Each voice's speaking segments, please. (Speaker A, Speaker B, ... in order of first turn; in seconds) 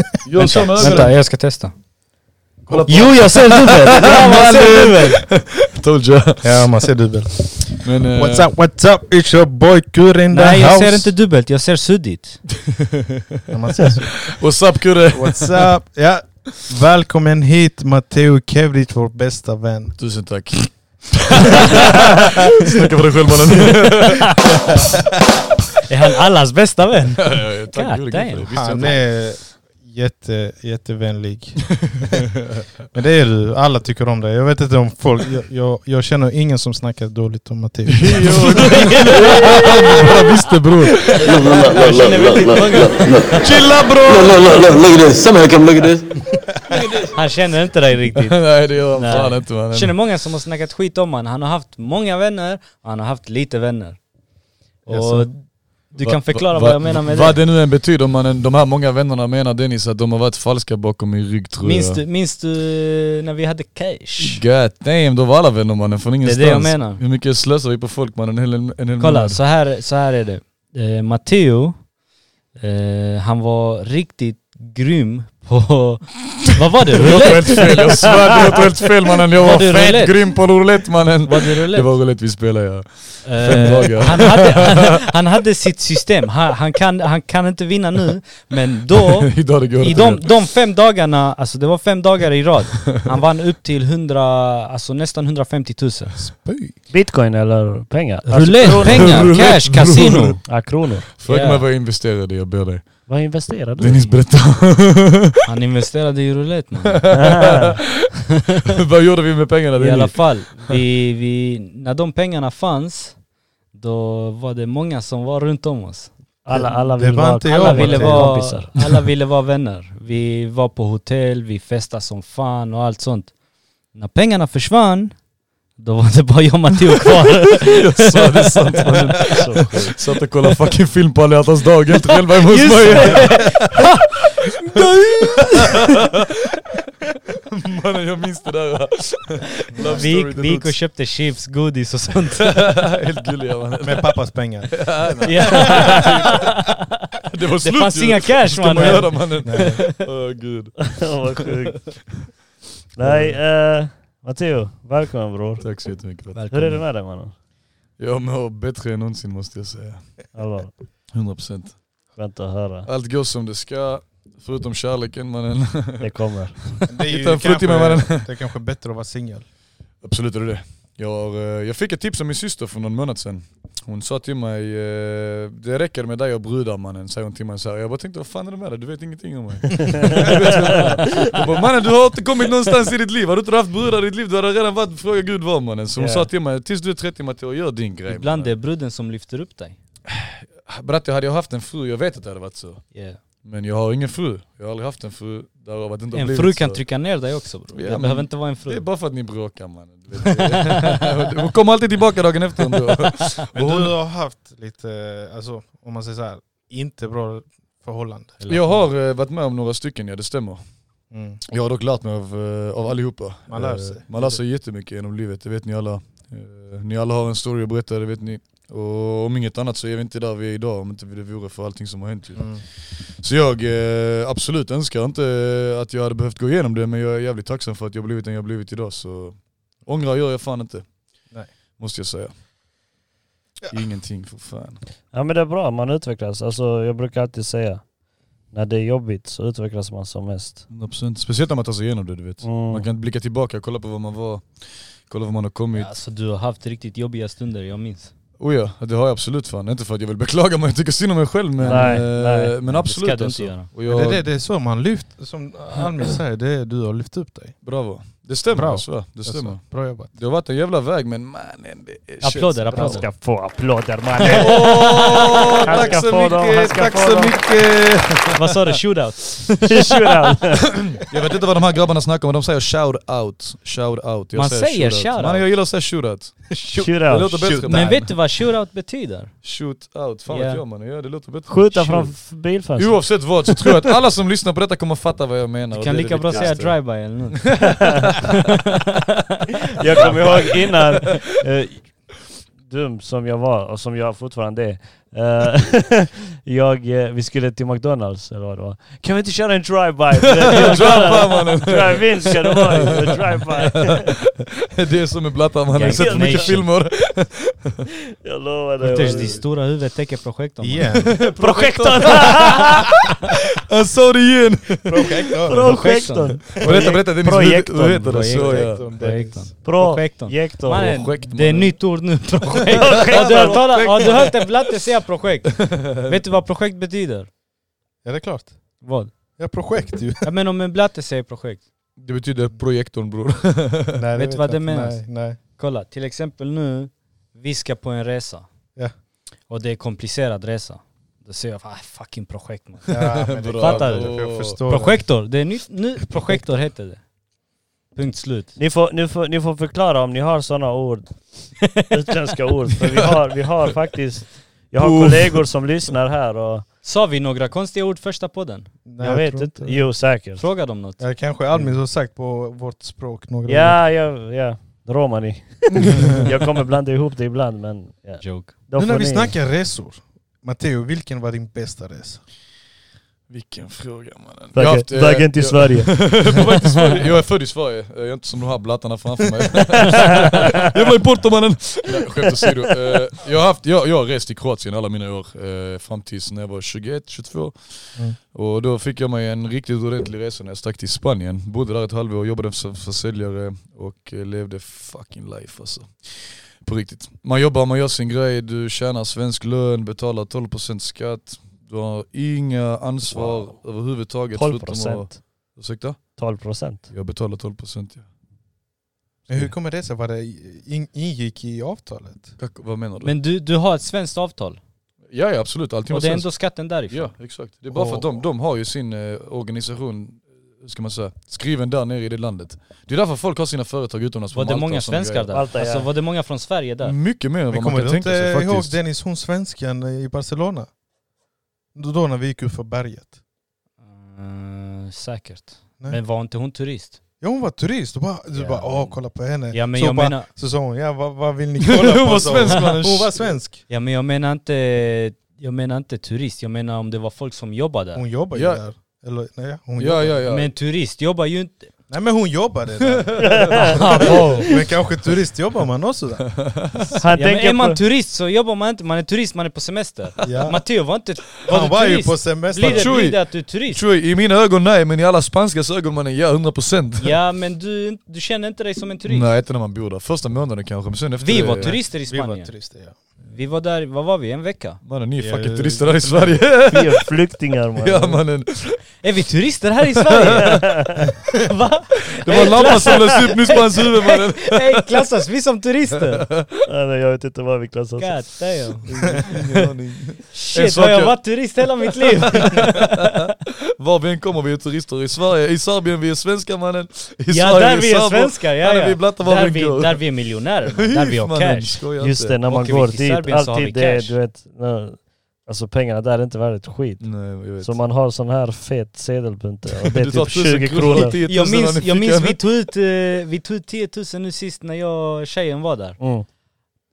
Speaker A: 0.2-1.2, 2.7-6.7, 7.7-8.5, 14.2-15.8, 20.0-24.6, 27.2-29.2, 37.9-41.7, 43.4-44.9, 48.1-50.0, 56.0-62.0, 64.2-69.4, 77.0-85.0, 89.1-90.4, 98.3-100.6, 101.1-105.4, 106.9-107.8, 108.7-110.6, 127.6-133.8, 134.8-136.2, 137.5-140.8, 142.4-146.5, 147.3-151.5, 153.1-153.4, 155.6-156.6, 158.0-160.3, 161.1-162.0, 162.8-168.5, 170.0-188.6, 190.1-196.9, 197.7-203.9, 208.5-210.6, 211.5-232.3, 233.7-234.8, 240.7-245.9, 248.4-254.2, 257.6-263.0, 264.2-268.6, 270.7-278.2, 279.4-288.2, 289.9-291.1, 300.4-307.8, 308.8-309.5, 311.0-312.9, 313.6-315.1, 316.5-318.9, 320.7-323.7, 325.6-326.2, 332.0-334.0, 342.9-344.6, 354.8-355.5, 373.3-406.2, 406.9-408.1, 412.4-413.2, 415.1-425.3, 426.8-428.8, 441.7-443.4, 448.3-448.6, 449.8-450.5, 453.1-453.6, 456.3-457.0, 462.6-467.1, 469.1-471.8, 474.8-477.1, 477.8-479.0, 479.8-480.6, 482.1-485.1, 485.9-486.7, 488.9-502.4, 507.0-507.8, 509.9-512.4
Speaker B: 0.4-1.7, 2.9-5.3, 10.3-12.6, 25.9-29.0, 38.4-40.4, 41.0-43.5, 46.9-54.0, 54.8-57.5, 61.6-64.4, 66.2-67.0, 69.0-71.9, 72.5-78.6, 79.4-80.7, 81.2-82.2, 83.2-96.4, 98.3-100.5, 101.2-101.7, 103.9-104.3, 105.4-107.5, 109.8-113.2, 113.7-116.1, 117.4-123.3, 123.9-125.2, 125.8-129.7, 132.1-136.1, 139.7-142.8, 145.2-146.8, 147.6-150.0, 156.3-156.8, 188.1-189.8, 192.9-193.2, 196.1-198.9, 200.2-200.8, 208.4-208.8, 245.7-248.1, 251.6-253.7, 262.2-263.1, 264.3-265.4, 268.4-269.9, 274.3-275.7, 277.4-279.5, 280.3-280.6, 285.7-287.9, 289.8-290.7, 300.6-300.9, 305.7-306.7, 308.8-311.1, 315.5-316.8, 317.8-327.3, 328.8-329.1, 330.2-331.7, 334.2-338.5, 339.5-347.3, 347.9-348.6, 351.8-352.3, 356.8-358.7, 360.2-361.7, 368.2-368.6, 413.0-414.6, 415.9-417.1, 424.3-427.0, 433.8-437.0, 438.3-440.3, 443.7-448.1, 450.2-451.7, 453.6-454.6, 457.1-463.8, 467.0-469.3, 471.2-472.6, 473.2-474.8, 479.0-480.7, 481.5-486.3, 488.0-489.4, 490.3-493.3, 497.3-501.9, 502.5-504.2, 511.2-516.0
Speaker C: 0.8-1.1, 3.1-3.5, 96.9-99.4, 100.5-101.1, 103.1-104.1, 107.1-107.8, 116.5-118.7, 129.3-129.9, 151.0-152.3, 153.0-155.9, 156.5-157.3, 160.3-160.7, 162.1-162.9, 166.0-166.6, 186.0-186.3, 235.1-237.8, 238.5-240.7, 242.4-242.9, 251.7-252.6, 262.7-267.4, 269.7-270.7, 276.8-277.6, 281.5-283.4, 289.8-304.1, 305.9-306.6, 308.2-309.4, 311.4-313.0, 315.5-318.2, 319.6-321.0, 322.8-323.7, 348.6-356.7, 359.0-360.5, 363.5-369.4, 374.5-376.4, 404.3-405.4, 406.2-406.9, 425.3-425.9, 453.2-454.4, 457.0-457.8, 476.7-478.2, 480.4-481.0, 486.7-488.3, 502.0-511.2, 516.0-516.3
Speaker D: 2.7-3.2, 6.4-11.1, 13.5-14.4, 15.1-20.0, 28.5-32.4, 32.9-38.8, 54.9-55.3, 96.1-96.8, 116.5-118.5, 143.8-145.2, 148.8-149.9, 166.9-169.5, 203.5-208.4, 211.1-211.4, 213.5-214.4, 222.3-222.7, 253.8-257.8, 258.4-260.1, 277.4-278.1, 310.6-311.2, 314.9-315.9, 316.6-317.0, 318.3-319.5, 323.1-324.5, 328.0-330.3, 333.9-335.4, 342.9-345.1, 358.9-359.9, 361.0-363.8, 368.8-372.3, 409.3-412.4, 417.7-418.2, 427.5-430.7, 431.7-433.1, 437.2-443.6, 447.9-450.2, 451.9-456.4, 460.2-460.6, 461.4-463.0, 471.4-473.0, 475.2-476.3
Speaker E: 41.2-43.4, 44.0-46.2